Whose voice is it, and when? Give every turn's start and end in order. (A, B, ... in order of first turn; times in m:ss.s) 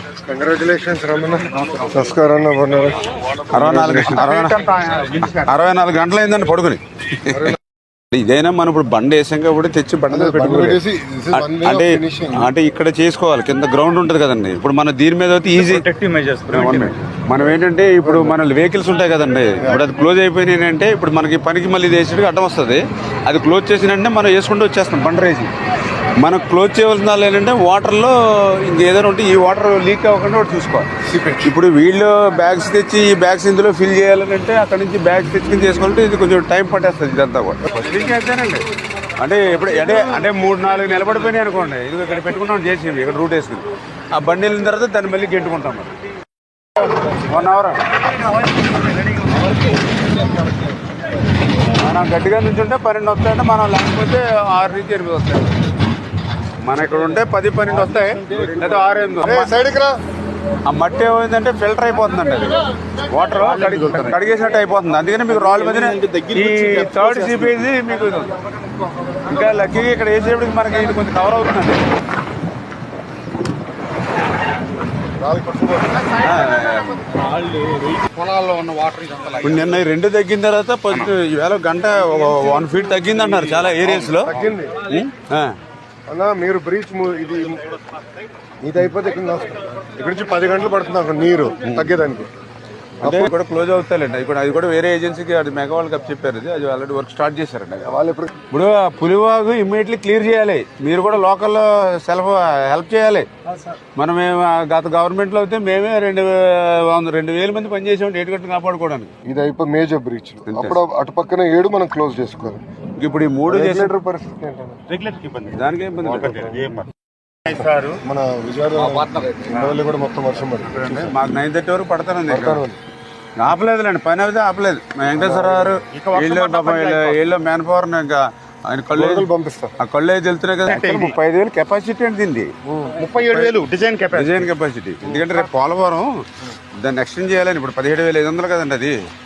0:00.2-0:03.0 A
0:01.6-0:01.9 B
0:03.5-0:04.6 C
0:03.5-0:04.2 A
0:04.0-0:05.5 B
0:05.3-0:07.6 C
0:07.3-0:07.6 A
0:08.1-0:10.8 C
0:10.1-0:12.5 A
0:11.3-0:15.9 C
0:15.5-0:17.0 B
0:16.5-0:25.5 C
0:18.0-0:18.4 A
0:26.2-0:30.9 C
0:31.1-0:31.4 A
0:31.4-0:38.6 C
0:39.2-0:45.9 C
0:47.0-0:47.8 C
0:49.1-0:49.5 B
0:51.7-0:55.6 C
0:56.6-0:59.5 C
0:59.2-0:59.9 A
1:00.6-1:08.3 C
1:03.4-1:04.2 B
1:05.3-1:07.6 B
1:09.2-1:11.8 C
1:15.2-1:16.2 A
1:16.2-1:17.1 C
1:17.2-1:19.7 B
1:19.4-1:25.5 C
1:24.2-1:24.8 A
1:26.1-1:27.7 A
1:28.6-1:32.3 A
1:31.6-1:31.9 C
1:33.0-1:33.3 A
1:33.0-1:37.9 C
1:37.8-1:38.3 A
1:38.5-1:43.3 C
1:44.0-1:49.1 C
1:49.2-1:52.6 A
1:50.4-1:50.8 C
1:53.0-1:53.9 C
1:53.5-1:54.8 A
1:54.9-1:56.9 B
1:55.5-1:56.3 C
1:56.2-1:56.8 A
1:57.4-1:58.0 B
1:57.5-2:01.1 A
1:58.8-1:59.8 B
2:00.6-2:02.6 C
2:02.3-2:02.8 A
2:03.4-2:09.3 C
2:05.1-2:05.7 A
2:05.8-2:07.2 B
2:08.9-2:09.8 A
2:09.8-2:12.5 C
2:10.6-2:11.1 B
2:12.6-2:13.5 A
2:13.0-2:14.5 B
2:14.1-2:16.1 C
2:15.0-2:15.3 A
2:16.8-2:18.9 C